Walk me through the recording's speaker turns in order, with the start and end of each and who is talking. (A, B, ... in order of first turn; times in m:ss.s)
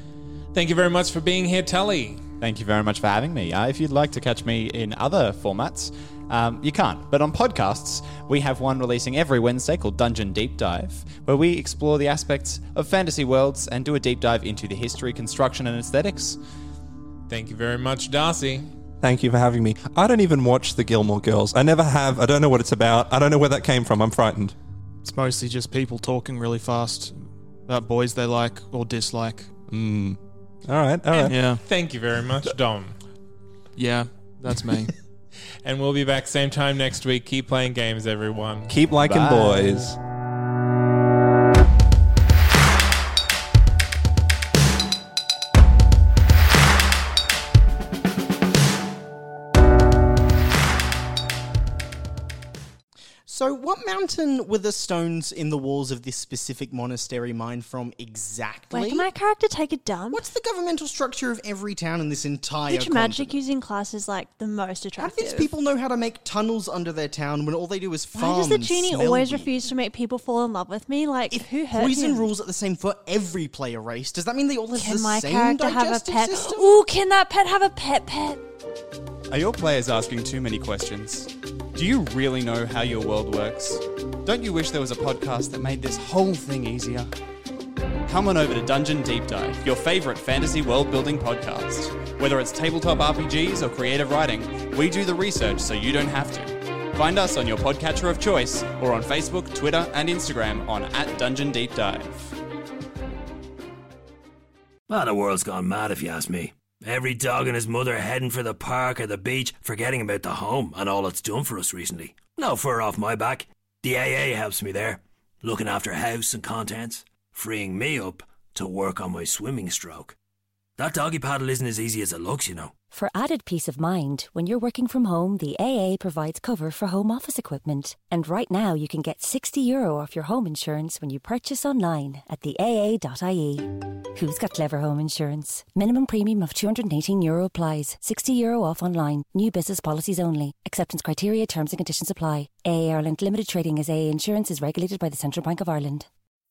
0:00.5-0:02.2 A
0:02.4-0:16.4 B
0:17.3-0:18.7 A
0:19.0-0:24.6 C
0:25.0-0:29.5 D
0:29.7-0:31.4 C
0:31.1-0:33.0 A
0:31.2-0:31.6 D
0:33.8-0:35.0 D
0:35.6-0:38.7 A
0:38.7-0:40.0 C
0:39.0-0:39.9 B
0:53.3-0:59.1 E
0:58.7-1:00.3 F
1:00.1-1:03.4 E
1:02.7-1:05.6 F
1:05.0-1:09.6 E
1:08.1-1:12.3 F
1:11.7-1:16.8 E
1:14.7-1:18.4 F
1:19.3-1:27.1 B
1:28.0-1:42.4 B
1:44.9-2:00.2 G
2:00.8-2:02.7 G
2:02.9-2:26.1 H